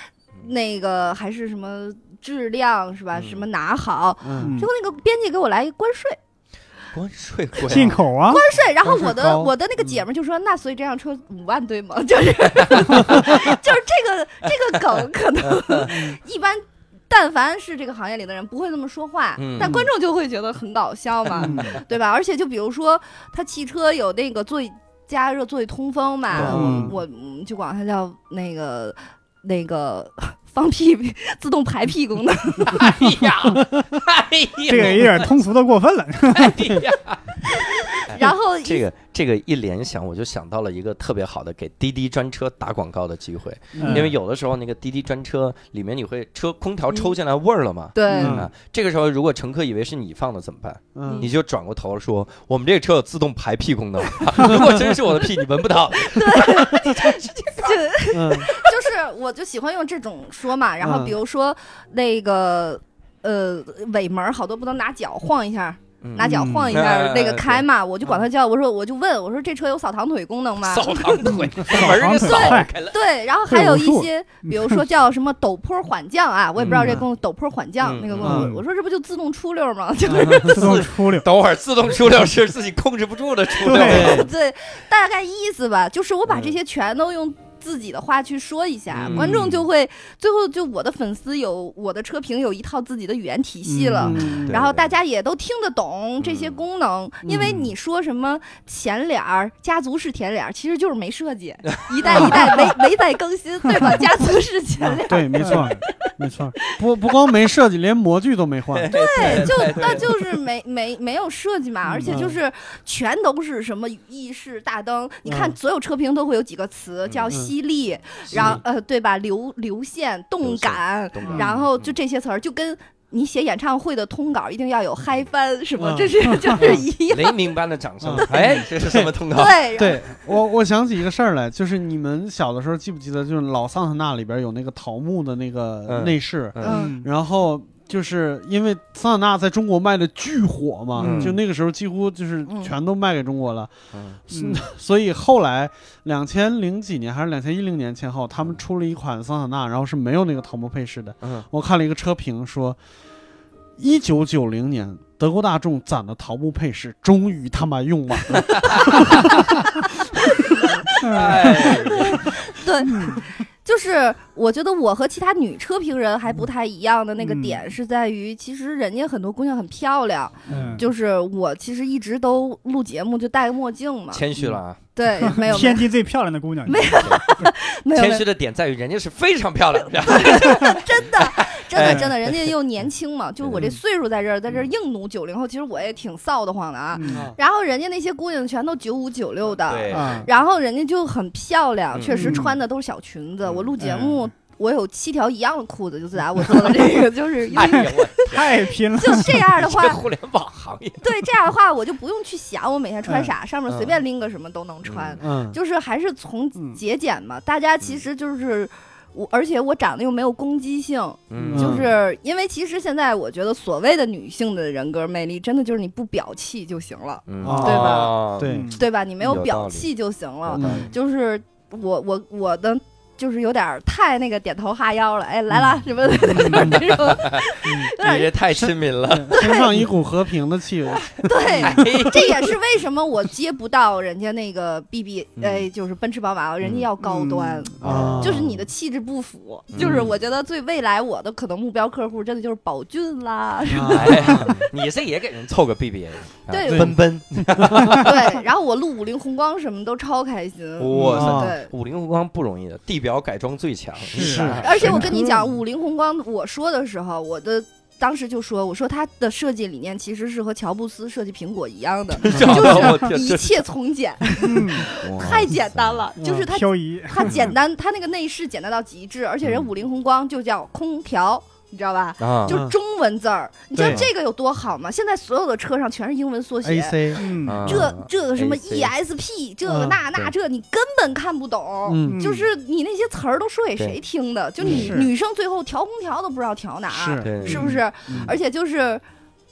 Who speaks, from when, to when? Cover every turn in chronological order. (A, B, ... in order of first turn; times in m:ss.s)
0:00.4-0:06.2 A
0:03.1-0:03.4 B
0:04.2-0:04.6 C
0:04.4-0:04.7 D
0:06.9-0:08.0 B
0:07.6-0:32.8 A
0:07.7-0:08.4 D
0:08.8-0:09.5 C
0:15.4-0:15.9 B
0:19.4-0:19.8 B
0:21.4-0:21.8 B
0:21.4-0:21.8 D
0:26.3-0:26.9 C
0:26.4-0:26.9 D
0:32.6-0:35.3 B
0:34.7-0:36.8 D
0:36.3-0:57.8 B
0:37.9-0:38.8 A
0:43.8-0:44.1 C
0:43.8-0:44.1 D
0:47.9-0:48.4 A
0:48.1-0:48.5 C
0:50.9-0:51.3 C
0:56.0-1:20.8 A
0:58.1-0:58.5 C
1:00.8-1:01.2 C
1:06.0-1:07.6 B
1:06.2-1:06.8 D
1:10.6-1:13.0 B
1:11.2-1:12.7 D
1:13.5-1:14.8 D
1:16.6-1:17.0 B
1:16.7-1:17.0 D
1:17.8-1:18.5 B
1:18.2-1:18.5 C
1:18.2-1:18.6 D
1:20.1-1:20.5 C
1:20.4-1:24.3 B
1:20.5-1:21.3 D
1:23.7-1:24.2 D
1:23.7-1:46.1 A
1:23.8-1:24.3 C
1:26.3-1:26.5 B
1:29.0-1:29.5 B
1:29.1-1:29.5 D
1:33.6-1:34.3 D
1:34.0-1:34.6 C
1:34.2-1:34.9 B
1:36.2-1:36.6 B
1:37.2-1:37.7 C
1:41.7-1:42.5 B
1:44.8-1:49.6 C
1:45.4-1:45.8 D
1:48.7-1:50.2 B
1:48.9-2:07.4 A
1:52.0-1:52.4 C
1:55.2-1:55.6 C
1:57.1-1:57.3 B
1:58.3-1:58.6 B
1:58.3-1:58.6 C
2:00.4-2:01.9 B
2:05.8-2:06.7 C
2:06.7-2:09.6 B
2:08.0-2:09.1 C
2:08.2-2:08.6 A
2:09.3-2:10.1 A
2:09.8-2:23.7 C
2:15.9-2:16.8 B
2:16.6-2:17.0 A
2:16.6-2:17.1 D
2:21.0-2:21.4 D
2:21.0-2:21.4 B
2:22.4-2:22.7 A
2:23.9-2:24.2 B
2:24.3-2:32.8 C
2:24.3-2:24.6 D
2:33.8-2:39.2 C
2:38.3-2:39.6 B
2:40.4-2:54.2 A
2:40.9-2:42.3 B
2:41.0-2:41.7 D
2:42.9-2:43.2 D
2:47.2-2:47.6 D
2:50.5-2:50.8 B
2:50.5-2:50.8 D
2:50.5-2:50.8 C
2:54.1-2:54.8 B
2:54.9-2:55.9 A
2:55.3-2:57.5 D
2:56.6-2:58.2 A
2:56.9-2:57.2 B
2:57.9-3:02.5 B
3:00.0-3:20.0 A
3:03.4-3:03.7 B
3:06.9-3:07.3 D
3:07.0-3:07.4 C
3:09.6-3:10.3 B
3:09.9-3:10.3 D
3:11.9-3:12.4 B
3:12.1-3:12.6 D
3:13.4-3:13.7 B
3:13.8-3:14.2 D
3:17.5-3:21.1 B
3:18.3-3:19.4 D
3:21.0-3:48.3 A
3:23.0-3:23.3 D
3:23.7-3:24.0 B
3:24.8-3:25.2 B
3:25.2-3:25.6 C
3:31.3-3:31.9 B
3:31.4-3:31.9 C
3:37.3-3:39.9 B
3:37.4-3:38.7 C
3:38.5-3:38.8 D
3:40.4-3:40.9 B
3:40.5-3:40.9 C
3:46.3-3:46.8 D
3:46.6-3:47.4 B
3:48.0-3:49.4 B
3:48.5-3:52.0 C
3:49.3-3:49.7 A
3:51.2-4:04.6 A
3:51.6-3:52.5 B
3:55.4-3:55.7 B
3:56.6-3:56.9 B
3:57.0-3:57.7 D
3:57.8-3:58.5 C
3:57.8-3:58.6 B
3:59.7-4:00.1 B
3:59.8-4:00.1 C
4:03.7-4:04.5 C
4:03.9-4:08.2 B
4:06.5-4:06.9 A
4:06.6-4:08.0 C
4:07.9-4:11.7 A
4:10.8-4:15.1 B
4:10.9-4:11.2 D
4:11.0-4:11.5 C
4:14.1-4:15.0 C
4:14.1-4:15.4 D
4:14.6-4:49.0 A
4:22.2-4:23.6 B
4:22.3-4:22.6 C
4:22.6-4:22.8 D
4:24.4-4:24.9 D
4:24.9-4:26.0 B
4:26.2-4:26.5 C
4:26.5-4:27.4 D
4:27.2-4:27.5 B
4:29.4-4:29.7 B
4:32.2-4:32.6 B
4:32.5-4:32.7 C
4:33.7-4:34.0 C
4:33.8-4:34.1 B
4:36.6-4:37.4 C
4:37.2-4:37.8 D
4:37.4-4:38.9 B
4:39.7-4:40.0 C
4:41.8-4:42.2 C
4:42.0-4:42.4 D
4:44.6-4:45.1 D
4:46.9-4:48.4 C
4:47.2-4:48.3 B